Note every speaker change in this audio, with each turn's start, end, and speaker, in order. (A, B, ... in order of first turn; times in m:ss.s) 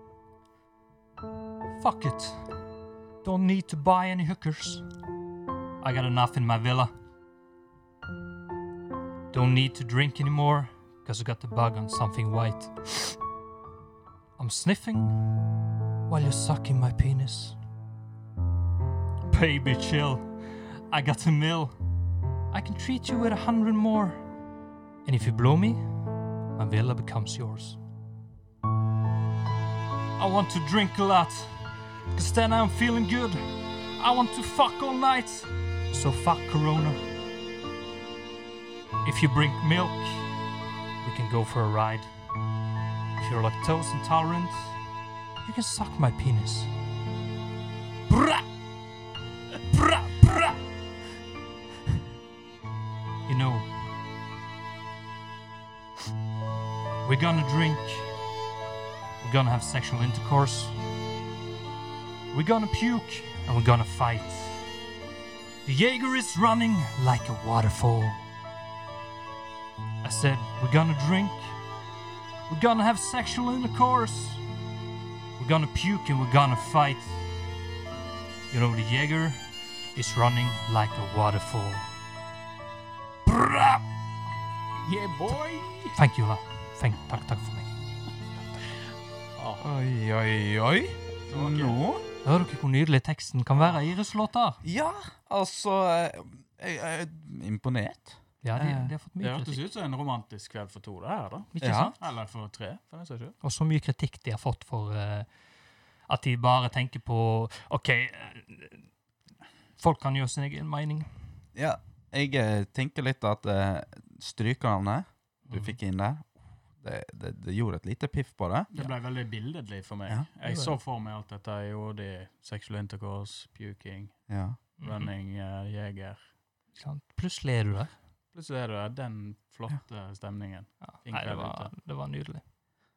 0:01.8-0:02.6 A
0:03.2-0:04.9 A
0:05.8-0:06.9 A
0:09.3-0:13.2 A
0:14.4-0:15.4 A
0:16.1-0:17.6 A
0:19.3-0:21.8 A
0:22.5-0:24.2 A
0:25.0-0:27.8 A
0:30.2-0:37.1 A
0:39.0-0:40.4 A
0:41.0-0:42.1 A
0:43.2-0:44.8 A
0:45.4-0:46.7 A
0:48.1-0:48.5 A
0:49.7-0:50.6 A
0:53.3-0:53.7 A
0:57.0-0:58.2 A
0:59.2-1:00.8 A
1:02.3-1:04.6 A
1:05.6-1:08.3 A
1:10.0-1:11.6 A
1:12.5-1:14.4 A
1:15.4-1:17.2 A
1:18.5-1:19.4 A
1:20.0-1:21.9 A
1:23.3-1:23.9 A
1:24.8-1:26.0 B
1:25.9-1:27.7 A
1:29.4-1:29.7 B
1:29.6-1:32.0 C
1:31.3-1:31.8 B
1:32.2-1:34.6 A
1:34.6-1:38.9 C
1:38.4-1:39.6 A
1:39.2-1:43.4 B
1:41.6-1:42.0 A
1:41.6-1:41.9 C
1:43.4-1:45.3 A
1:46.0-1:48.8 A
1:49.8-1:51.1 A
1:51.6-1:58.7 C
1:55.5-1:55.8 B
1:58.7-2:06.3 B
2:00.4-2:00.8 A
2:04.3-2:04.6 C
2:04.8-2:05.1 A
2:06.8-2:07.9 A
2:08.3-2:11.7 B
2:10.8-2:12.4 A